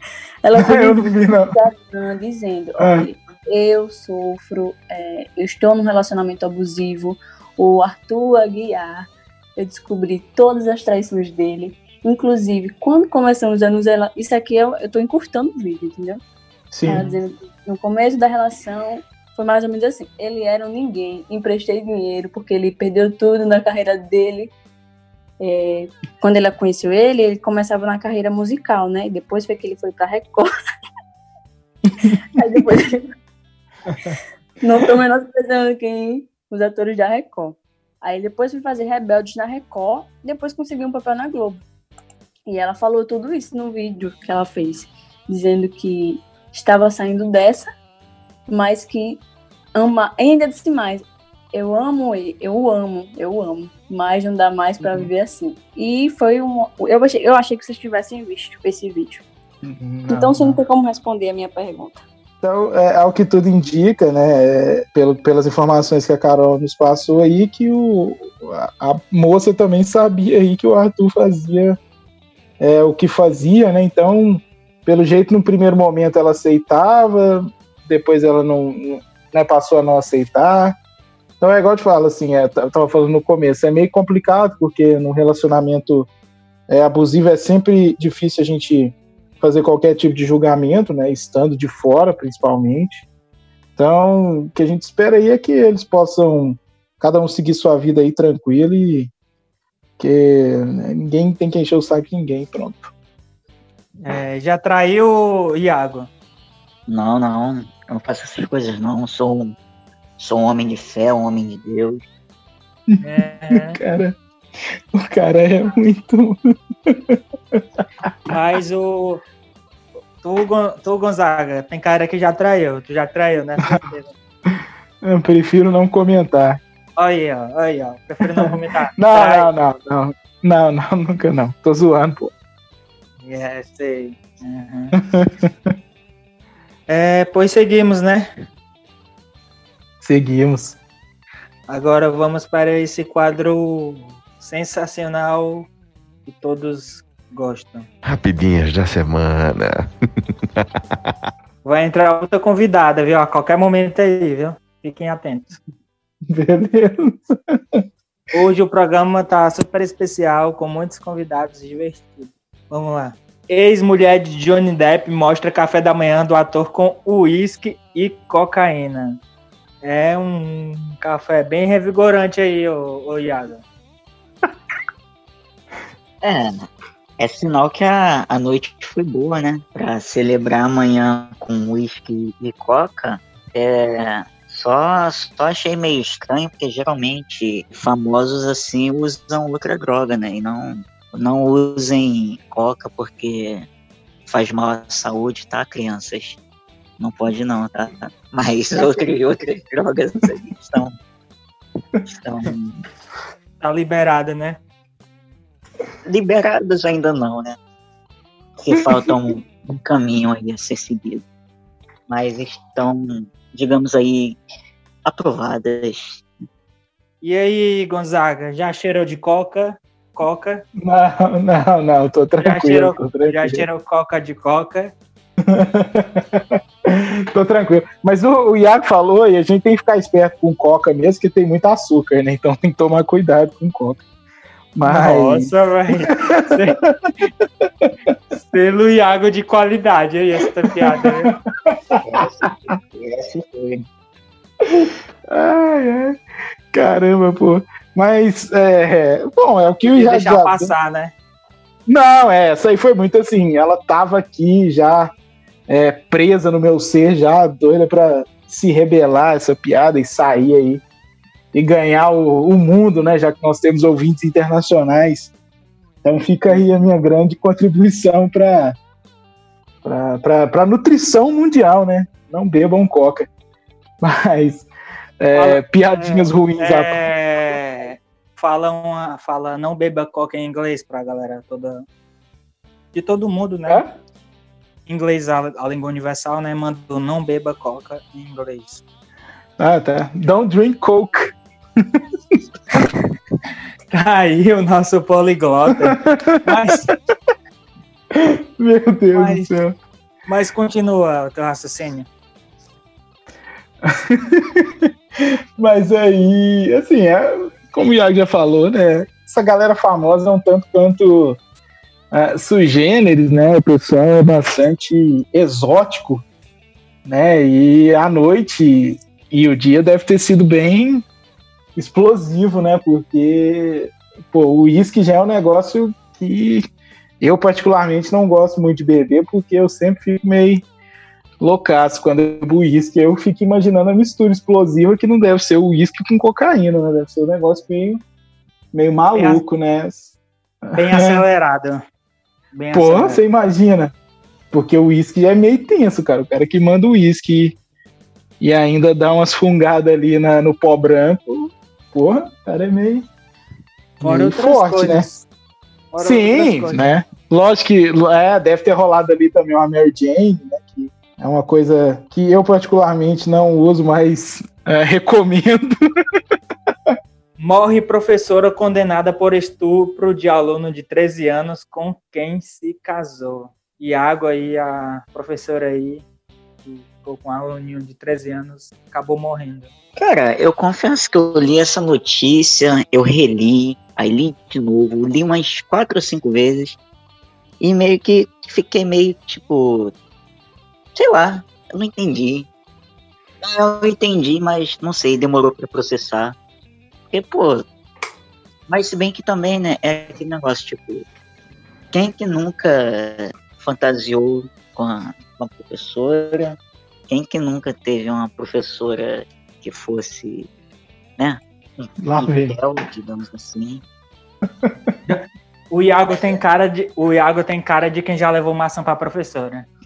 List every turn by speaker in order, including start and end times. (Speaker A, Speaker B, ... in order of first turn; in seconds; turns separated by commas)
Speaker A: 0.4-9.1, Speaker B: 0.5-1.6, Speaker B: 2.8-3.1, Speaker A: 9.6-16.2, Speaker B: 16.7-17.0, Speaker A: 16.9-24.5, Speaker A: 25.4-30.4, Speaker B: 31.9-32.2, Speaker A: 32.3-33.1, Speaker A: 34.6-41.6, Speaker A: 42.5-47.7, Speaker A: 48.5-49.2, Speaker A: 49.7-59.2, Speaker B: 54.8-55.1, Speaker B: 59.6-60.6, Speaker A: 60.1-62.0, Speaker B: 62.4-71.8, Speaker B: 72.6-80.8, Speaker B: 81.4-86.1, Speaker B: 86.7-93.0, Speaker B: 93.8-99.1, Speaker B: 100.0-102.9, Speaker C: 104.0-106.1, Speaker D: 106.9-109.5, Speaker D: 110.2-112.0, Speaker B: 112.9-114.2, Speaker C: 113.0-113.8, Speaker B: 114.9-118.1, Speaker C: 118.3-119.2, Speaker C: 120.2-124.1, Speaker B: 124.5-126.6, Speaker C: 127.0-129.5, Speaker B: 128.3-132.3, Speaker C: 133.2-134.9, Speaker B: 135.0-135.7, Speaker C: 136.9-138.3, Speaker B: 140.0-140.8, Speaker C: 141.7-145.7, Speaker C: 146.2-147.9, Speaker E: 148.0-149.9, Speaker E: 150.6-151.1, Speaker C: 151.6-155.6, Speaker B: 156.3-157.8, Speaker C: 158.3-169.2, Speaker C: 169.8-173.6, Speaker D: 176.2-176.7, Speaker D: 177.2-193.7, Speaker D: 194.3-196.4, Speaker D: 197.0-200.9, Speaker D: 202.1-202.8, Speaker C: 203.6-204.6, Speaker D: 206.1-207.6, Speaker D: 208.6-211.2, Speaker B: 208.8-209.1, Speaker D: 212.1-214.4, Speaker D: 215.0-216.2, Speaker C: 217.2-220.6, Speaker B: 220.8-223.6, Speaker C: 222.4-224.9, Speaker B: 225.4-234.0, Speaker B: 234.8-235.5, Speaker C: 234.8-236.8, Speaker B: 236.3-236.9, Speaker B: 237.6-238.2, Speaker C: 238.3-241.3, Speaker B: 240.7-242.7, Speaker D: 242.0-243.8, Speaker B: 244.6-246.2, Speaker B: 246.7-250.7, Speaker C: 249.9-251.1, Speaker B: 251.9-255.1, Speaker B: 255.7-260.8, Speaker B: 261.5-265.3, Speaker B: 266.0-268.8, Speaker B: 269.8-273.3, Speaker B: 274.0-274.7, Speaker B: 275.2-277.0, Speaker C: 275.3-281.8, Speaker C: 282.9-283.8, Speaker B: 283.7-283.9, Speaker C: 284.9-288.8, Speaker B: 289.6-292.4, Speaker C: 293.9-296.9, Speaker B: 295.7-296.9, Speaker B: 298.1-299.7, Speaker C: 299.1-299.5, Speaker C: 300.3-302.1, Speaker B: 303.8-311.4, Speaker B: 312.1-316.2, Speaker B: 317.0-321.0, Speaker B: 321.8-326.6, Speaker B: 327.2-330.6, Speaker B: 331.4-338.0, Speaker B: 338.7-340.1, Speaker C: 339.1-339.4, Speaker B: 340.6-341.2, Speaker C: 340.7-341.8, Speaker C: 342.5-343.2, Speaker B: 342.7-343.9, Speaker B: 344.5-347.6, Speaker B: 348.4-353.1, Speaker C: 354.0-355.2, Speaker B: 354.0-355.1, Speaker C: 355.9-357.0, Speaker B: 356.0-366.1, Speaker B: 366.7-366.9, Speaker C: 367.4-376.0, Speaker C: 376.6-379.7, Speaker D: 380.0-386.8, Speaker D: 387.6-389.9, Speaker D: 390.9-392.5, Speaker D: 393.4-396.3, Speaker D: 397.1-397.6, Speaker D: 398.7-401.1, Speaker D: 401.9-406.6, Speaker D: 407.1-410.5, Speaker D: 411.2-413.8, Speaker B: 412.0-412.6, Speaker B: 414.6-414.9, Speaker C: 415.1-419.7